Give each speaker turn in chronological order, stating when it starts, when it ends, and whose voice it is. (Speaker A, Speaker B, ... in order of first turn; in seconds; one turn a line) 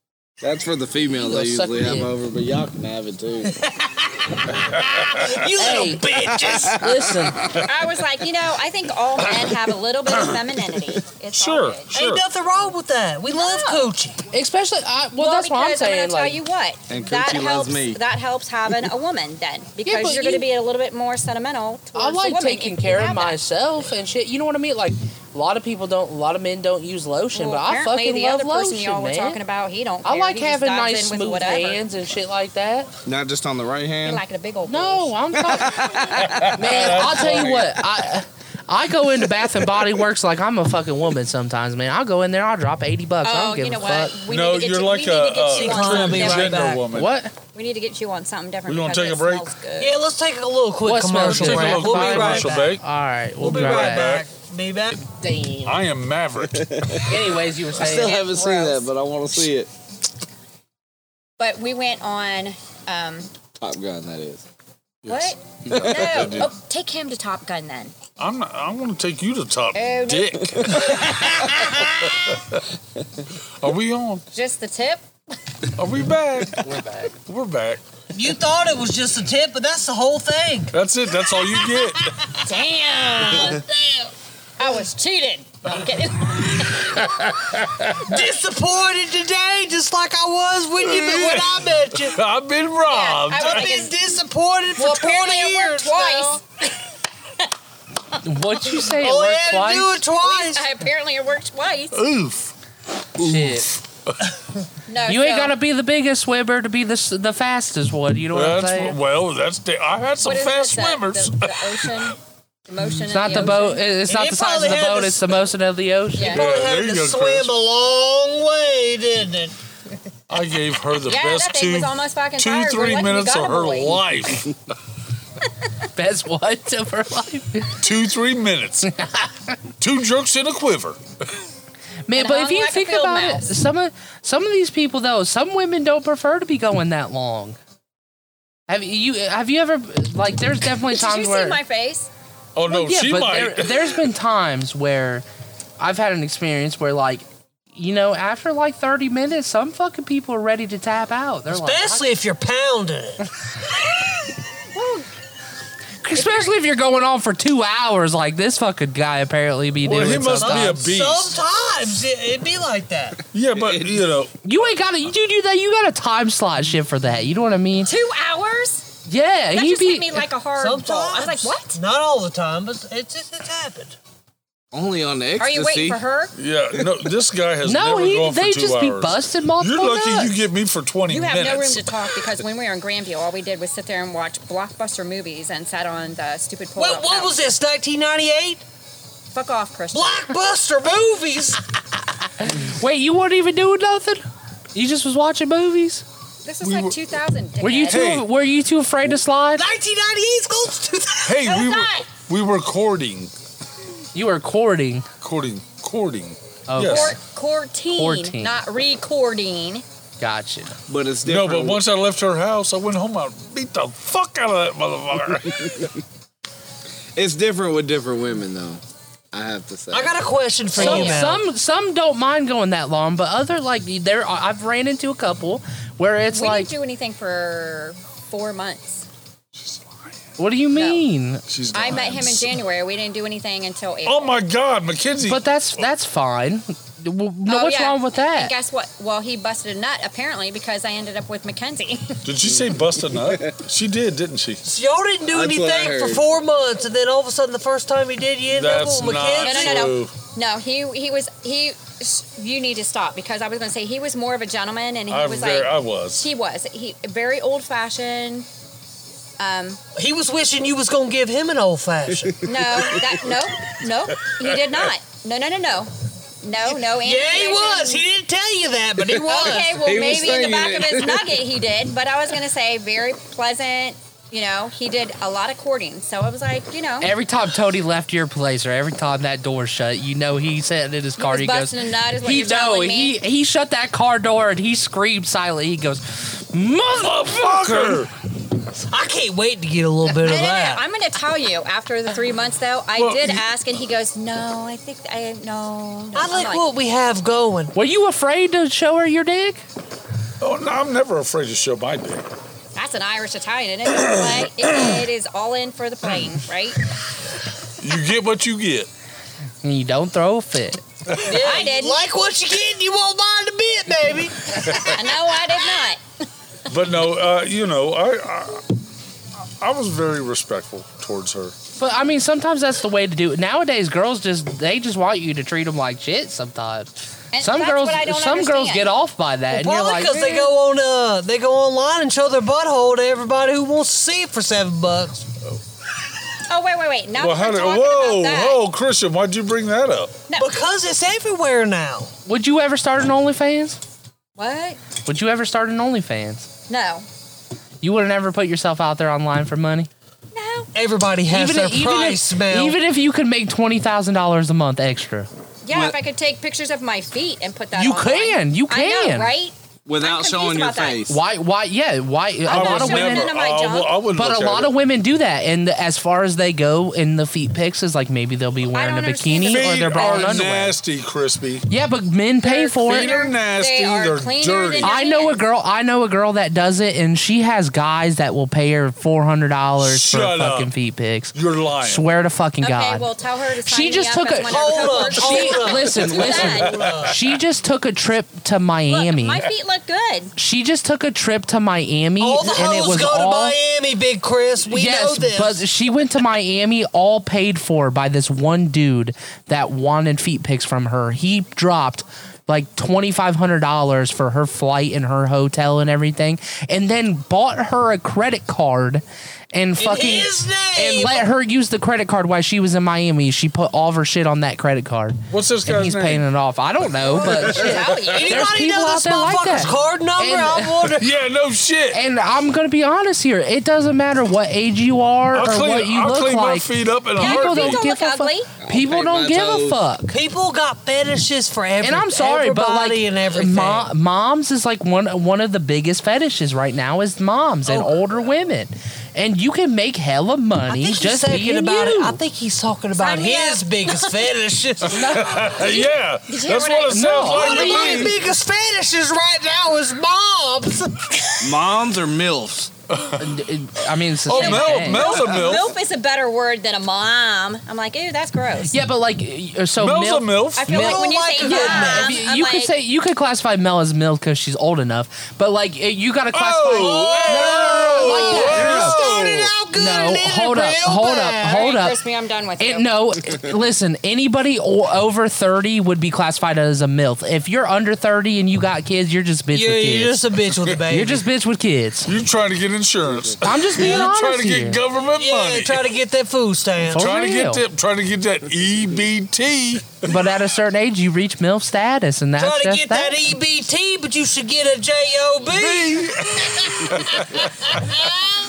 Speaker A: 0.4-3.5
Speaker B: 1.1-2.1
Speaker C: 3.5-6.9
Speaker D: 4.7-5.5
Speaker B: 5.6-6.2
Speaker A: 6.3-7.6
Speaker B: 6.7-7.5
Speaker E: 7.6-11.9
Speaker D: 10.1-10.3
Speaker D: 11.3-12.2
Speaker C: 11.9-14.2
Speaker E: 13.3-13.9
Speaker B: 14.3-16.4
Speaker E: 15.2-23.4
Speaker A: 16.9-18.0
Speaker B: 19.8-20.5
Speaker B: 21.9-29.4
Speaker E: 27.3-31.8
Speaker B: 30.0-32.9
Speaker A: 33.0-34.2
Speaker E: 34.0-35.1
Speaker B: 34.6-35.9
Speaker A: 35.4-36.5
Speaker D: 36.1-37.8
Speaker B: 36.5-44.2
Speaker E: 43.2-46.6
Speaker D: 44.3-47.1
Speaker C: 45.5-46.8
Speaker B: 46.9-47.3
Speaker E: 47.5-50.0
Speaker D: 48.6-49.5
Speaker C: 49.8-52.8
Speaker B: 50.8-54.1
Speaker D: 51.2-52.8
Speaker D: 53.4-54.3
Speaker C: 53.4-55.0
Speaker B: 55.1-55.8
Speaker D: 55.6-56.9
Speaker A: 56.6-59.7
Speaker B: 57.0-58.2
Speaker E: 58.0-58.9
Speaker E: 61.4-63.3
Speaker A: 63.6-64.4
Speaker D: 65.0-66.5
Speaker E: 65.0-67.9
Speaker A: 65.7-66.4
Speaker D: 68.2-72.6
Speaker E: 69.7-70.3
Speaker D: 73.6-74.2
Speaker E: 74.3-75.0
Speaker D: 75.8-76.7
Speaker B: 76.6-77.1
Speaker D: 77.2-77.8
Speaker C: 78.1-80.7
Speaker D: 80.7-82.2
Speaker C: 81.5-82.4
Speaker E: 82.4-83.6
Speaker C: 83.3-84.1
Speaker E: 84.6-87.0
Speaker D: 86.9-87.9
Speaker C: 88.0-92.2
Speaker D: 90.8-93.7
Speaker E: 92.9-93.9
Speaker C: 93.3-96.4
Speaker E: 94.8-96.4
Speaker B: 98.2-100.0
Speaker C: 98.9-100.8
Speaker E: 100.1-102.0
Speaker D: 101.9-102.5
Speaker B: 103.2-103.7
Speaker D: 103.2-104.2
Speaker E: 104.9-105.5
Speaker B: 105.1-109.0
Speaker D: 108.3-112.1
Speaker E: 110.2-113.9
Speaker B: 113.0-116.4
Speaker C: 114.1-115.3
Speaker E: 116.2-116.4
Speaker C: 116.2-119.5
Speaker D: 116.3-117.5
Speaker D: 120.3-124.5
Speaker E: 121.0-124.0
Speaker B: 125.9-127.8
Speaker D: 127.8-128.9
Speaker B: 128.9-129.3
Speaker D: 129.8-131.0
Speaker B: 132.1-137.6
Speaker E: 132.1-133.6
Speaker B: 138.7-141.6
Speaker E: 140.9-142.1
Speaker D: 142.6-144.0
Speaker B: 142.7-145.2
Speaker B: 145.8-152.1
Speaker C: 151.5-153.3
Speaker B: 156.0-160.8
Speaker E: 156.1-156.5
Speaker D: 159.8-161.4
Speaker C: 160.2-163.2
Speaker D: 163.3-164.3
Speaker A: 163.6-163.8
Speaker B: 164.4-167.9
Speaker E: 167.8-168.9
Speaker B: 169.1-170.3
Speaker E: 169.5-171.8
Speaker C: 170.6-174.0
Speaker A: 174.7-176.0
Speaker E: 175.3-176.3
Speaker D: 176.3-181.9
Speaker B: 177.6-180.4
Speaker E: 181.1-187.3
Speaker C: 186.8-188.6
Speaker E: 189.3-190.3
Speaker C: 189.9-191.6
Speaker B: 192.4-194.2
Speaker B: 194.7-196.0
Speaker E: 196.4-198.1
Speaker D: 196.6-197.0
Speaker B: 197.6-199.6
Speaker D: 197.9-198.3
Speaker C: 199.6-201.4
Speaker D: 201.2-203.3
Speaker E: 201.4-202.1
Speaker B: 204.1-205.1
Speaker D: 205.2-207.2
Speaker B: 206.7-207.2
Speaker E: 206.8-209.8
Speaker B: 207.9-208.6
Speaker B: 210.2-210.8
Speaker A: 210.9-211.8
Speaker D: 211.2-215.9
Speaker A: 217.2-220.1
Speaker C: 219.9-221.4
Speaker B: 220.8-226.7
Speaker E: 226.3-229.1
Speaker D: 229.6-230.1
Speaker B: 230.4-231.4
Speaker E: 230.7-231.0
Speaker D: 231.5-232.6
Speaker E: 231.7-234.4
Speaker D: 234.0-235.5
Speaker B: 235.3-238.5
Speaker E: 237.4-242.2
Speaker D: 242.2-244.6
Speaker A: 242.5-243.5
Speaker C: 244.6-249.9
Speaker A: 245.3-246.2
Speaker D: 248.5-250.2
Speaker E: 249.4-258.5
Speaker D: 255.1-256.3
Speaker E: 259.4-259.8
Speaker C: 259.9-262.5
Speaker E: 262.4-268.0
Speaker C: 266.6-269.8
Speaker E: 269.2-277.1
Speaker A: 269.4-271.4
Speaker B: 277.0-288.0
Speaker E: 281.2-283.2
Speaker D: 287.0-288.1
Speaker C: 288.9-290.8
Speaker E: 290.2-296.7
Speaker D: 292.9-293.4
Speaker C: 296.1-297.7
Speaker B: 297.7-299.6
Speaker D: 300.4-302.2
Speaker E: 302.8-306.8
Speaker D: 304.1-304.4
Speaker D: 307.8-308.9
Speaker B: 309.6-310.8
Speaker C: 311.2-314.7
Speaker E: 311.3-312.0
Speaker E: 314.8-316.0
Speaker D: 316.7-318.7
Speaker D: 319.6-321.5
Speaker B: 321.8-330.2
Speaker E: 327.3-328.9
Speaker C: 329.5-335.2
Speaker E: 329.9-330.5
Speaker E: 336.5-338.6
Speaker D: 337.2-340.1
Speaker C: 340.4-342.1
Speaker B: 342.2-343.8
Speaker E: 344.4-344.8
Speaker B: 345.1-346.5
Speaker E: 346.7-347.1
Speaker B: 347.8-349.9
Speaker E: 350.3-350.7
Speaker C: 350.7-352.8
Speaker B: 351.3-355.3
Speaker E: 355.6-361.1
Speaker A: 355.7-356.0
Speaker B: 357.7-359.3
Speaker A: 359.9-361.2
Speaker B: 361.1-363.3
Speaker E: 362.4-364.0
Speaker D: 362.5-364.8
Speaker B: 364.1-370.8
Speaker E: 368.7-370.4
Speaker D: 369.4-371.6
Speaker B: 371.7-373.1
Speaker E: 372.4-375.4
Speaker D: 372.8-375.0
Speaker B: 374.8-383.1
Speaker D: 379.8-380.7
Speaker D: 381.3-382.1
Speaker E: 382.6-386.8
Speaker B: 383.6-389.5
Speaker C: 384.4-387.2
Speaker E: 388.9-390.3
Speaker B: 390.4-393.6
Speaker C: 392.2-395.6
Speaker B: 394.7-421.0
Speaker C: 409.8-411.3
Speaker D: 415.3-416.2
Speaker E: 417.0-418.5
Speaker C: 417.6-421.1
Speaker D: 421.0-422.0
Speaker B: 421.9-430.2
Speaker D: 425.3-427.8
Speaker E: 427.1-428.5
Speaker A: 428.6-429.8
Speaker C: 430.1-433.9
Speaker B: 431.8-442.2
Speaker C: 437.6-438.0
Speaker C: 440.7-445.0
Speaker E: 442.9-444.2
Speaker B: 444.9-445.5
Speaker D: 444.9-448.1
Speaker E: 445.5-447.8
Speaker B: 446.9-448.1
Speaker C: 447.3-451.6
Speaker A: 451.4-452.7
Speaker D: 452.9-453.4
Speaker B: 453.2-455.1
Speaker D: 454.2-455.8
Speaker E: 454.3-458.7
Speaker A: 455.3-455.5
Speaker B: 458.7-469.0
Speaker D: 459.8-460.7
Speaker E: 460.6-462.7
Speaker C: 460.7-462.2
Speaker D: 466.3-469.5
Speaker C: 466.7-471.7
Speaker E: 468.0-468.7
Speaker B: 469.7-472.0
Speaker E: 471.5-472.9
Speaker B: 472.6-480.3
Speaker C: 479.5-481.2
Speaker B: 480.9-482.1
Speaker D: 482.0-485.9
Speaker B: 483.4-484.8
Speaker C: 483.8-484.1
Speaker C: 485.1-487.1
Speaker B: 486.9-487.6
Speaker D: 486.9-490.2
Speaker B: 490.0-493.3
Speaker C: 492.4-498.4
Speaker D: 495.4-497.8